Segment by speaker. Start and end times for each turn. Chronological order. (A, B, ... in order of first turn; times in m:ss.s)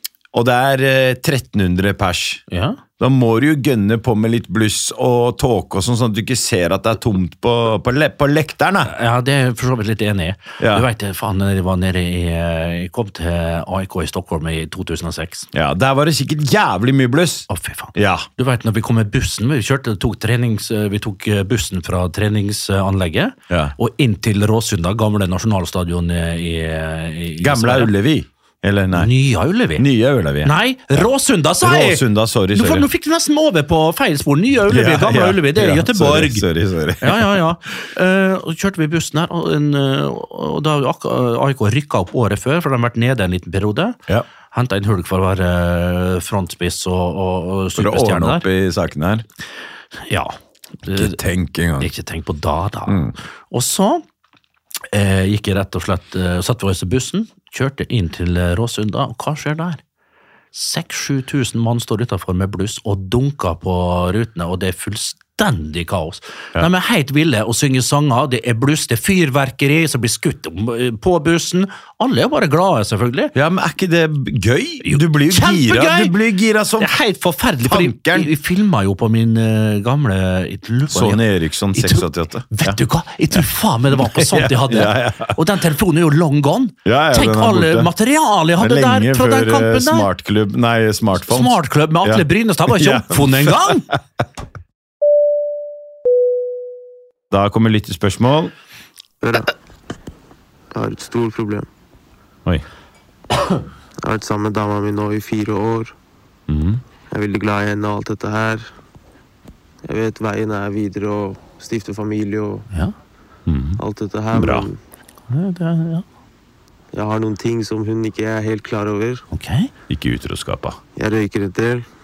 0:00.3-0:02.4 A
0:02.5-0:02.8 B
0:03.0-0:08.9 A
0:08.9-0:15.5 B
0:10.6-0:10.9 A
0:15.5-0:18.3 A
0:17.5-0:27.9 B
0:27.4-0:29.1 A
0:28.9-0:29.9 B
0:29.8-0:31.0 A
0:30.4-0:36.4 B
0:31.6-0:32.9 A
0:34.7-0:37.4 A
0:37.0-0:44.0 B
0:44.5-0:48.5 B
0:47.8-0:49.2 A
0:50.1-0:51.2 B
0:50.9-0:51.9 A
0:51.8-0:54.0 B
0:52.9-0:53.1 A
0:54.9-0:59.8 B
1:00.5-1:13.3 B
1:13.3-1:17.0 A
1:14.8-1:16.2 B
1:16.8-1:30.1 B
1:17.6-1:18.3 A
1:20.9-1:22.8 A
1:23.9-1:25.4 A
1:26.8-1:27.9 A
1:28.6-1:34.0 A
1:31.2-1:33.9 B
1:37.3-1:38.5 A
1:39.2-1:39.5 C
1:40.7-1:41.7 C
1:44.0-1:45.9 C
1:46.5-1:46.8 A
1:47.1-1:48.7 C
1:49.8-1:52.7 C
1:53.5-1:53.8 A
1:53.8-1:54.8 C
1:54.3-1:54.7 A
1:55.3-1:56.0 B
1:56.9-1:59.2 C
1:59.3-1:59.7 B
1:59.9-2:00.8 A
2:01.0-2:01.8 C